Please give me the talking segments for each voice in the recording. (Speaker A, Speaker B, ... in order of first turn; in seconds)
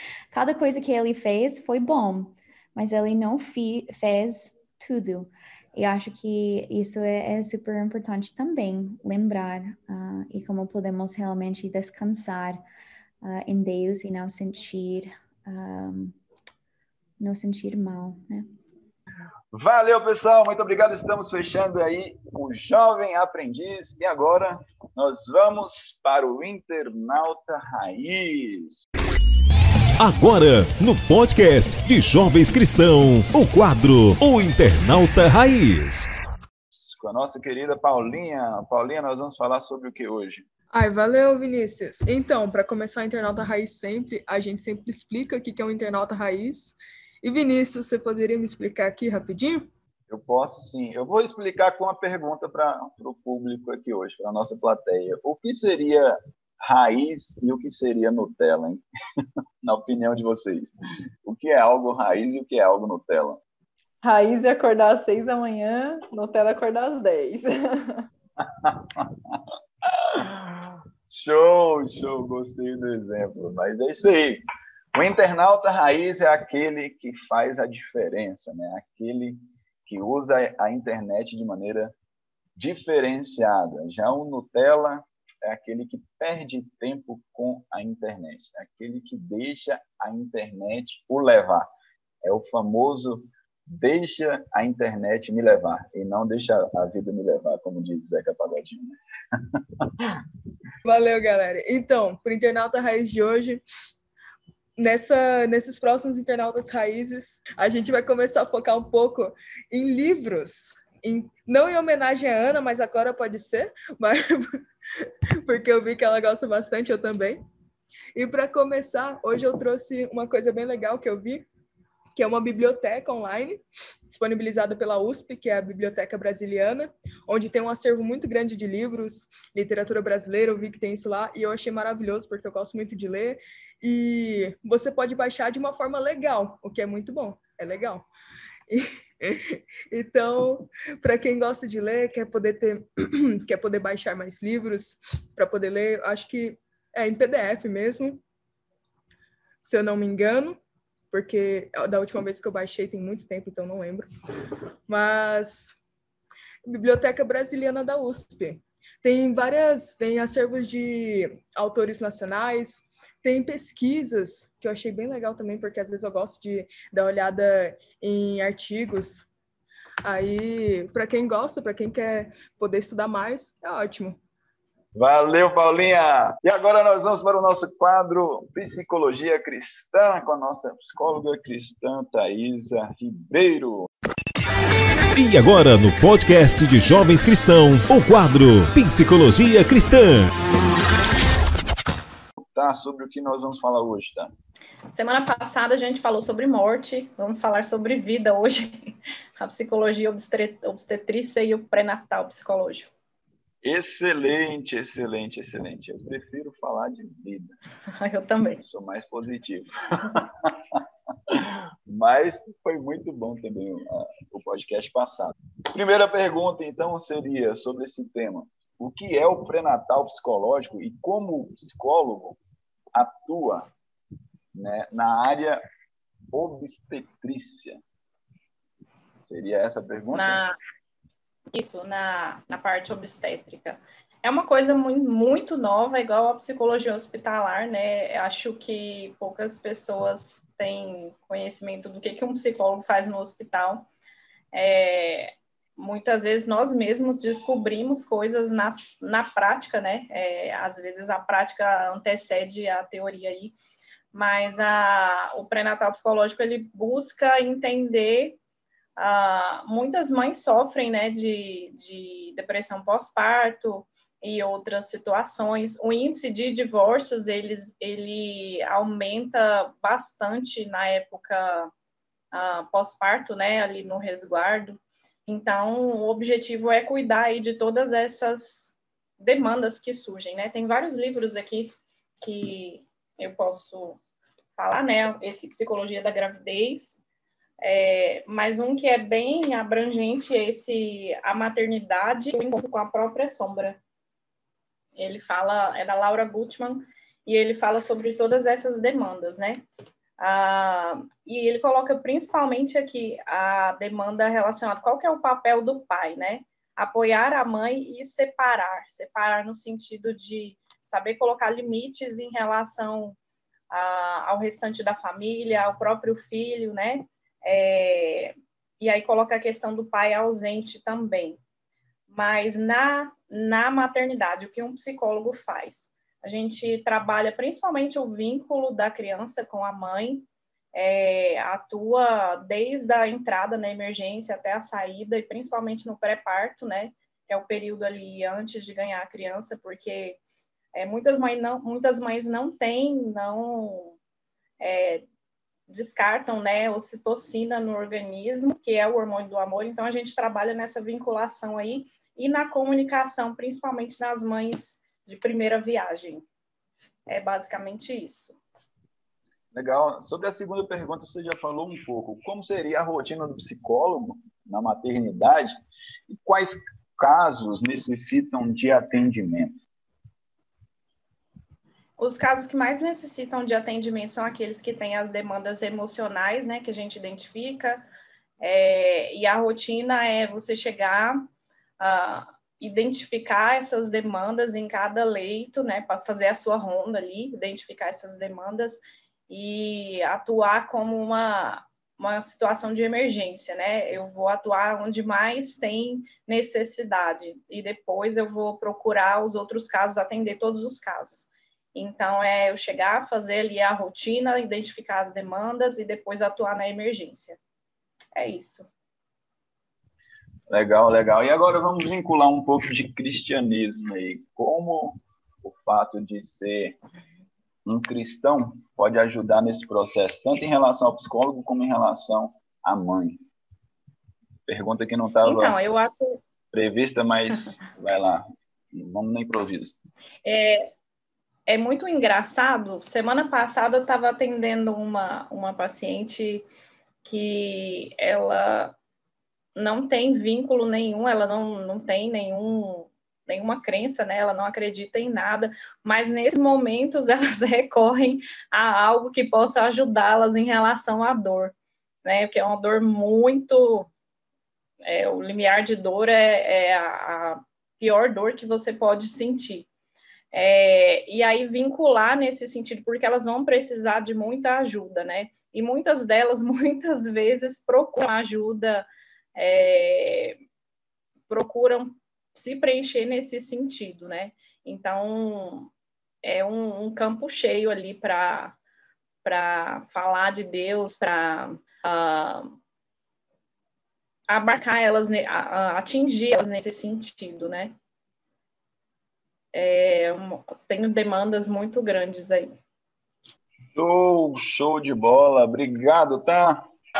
Speaker A: 0.3-12.6, 13.2-16.2, 17.2-18.5
Speaker B: 19.5-28.8, 36.8-40.5, 50.1-58.8, 59.6-60.7, 61.2-63.4, 68.4-74.4, 74.9-82.0, 82.6-91.7, 92.2-100.2, 174.9-183.9, 192.4-194.3, 203.6-207.6, 208.6-222.4, 222.9-223.7, 224.5-225.6, 226.3-227.8, 229.2-230.4, 359.5-365.5, 366.1-369.6, 410.5-416.8, 417.7-423.2, 424.5-425.6, 426.5-429.8, 493.8-496.6
Speaker C: 30.0-36.1, 185.2-190.3
Speaker D: 40.7-49.7, 100.8-103.6, 104.8-114.6, 115.4-117.4, 118.1-121.5, 122.2-138.1, 138.7-148.2, 149.6-150.6, 151.1-154.1, 154.9-155.8, 156.7-169.3, 170.1-174.2
Speaker E: 64.0-68.1
Speaker F: 194.9-202.9, 208.0-208.6, 230.1-230.5, 231.5-243.9, 244.5-253.6, 254.1-258.4, 259.0-271.7, 272.3-284.0, 284.6-287.0, 287.6-293.8, 295.0-299.6, 300.2-313.2, 313.7-321.4, 322.1-340.2, 340.7-344.0, 344.6-345.0, 345.7-356.2, 357.1-358.4, 372.0-377.8, 378.4-381.2, 381.8-407.4, 408.1-408.7, 425.2-426.2, 430.2-430.7, 431.5-436.4, 437.1-438.8, 439.6-453.9, 454.8-459.7, 460.3-470.4, 471.3-475.7, 476.2-478.6, 479.2-482.5, 484.3-487.8, 489.5-492.5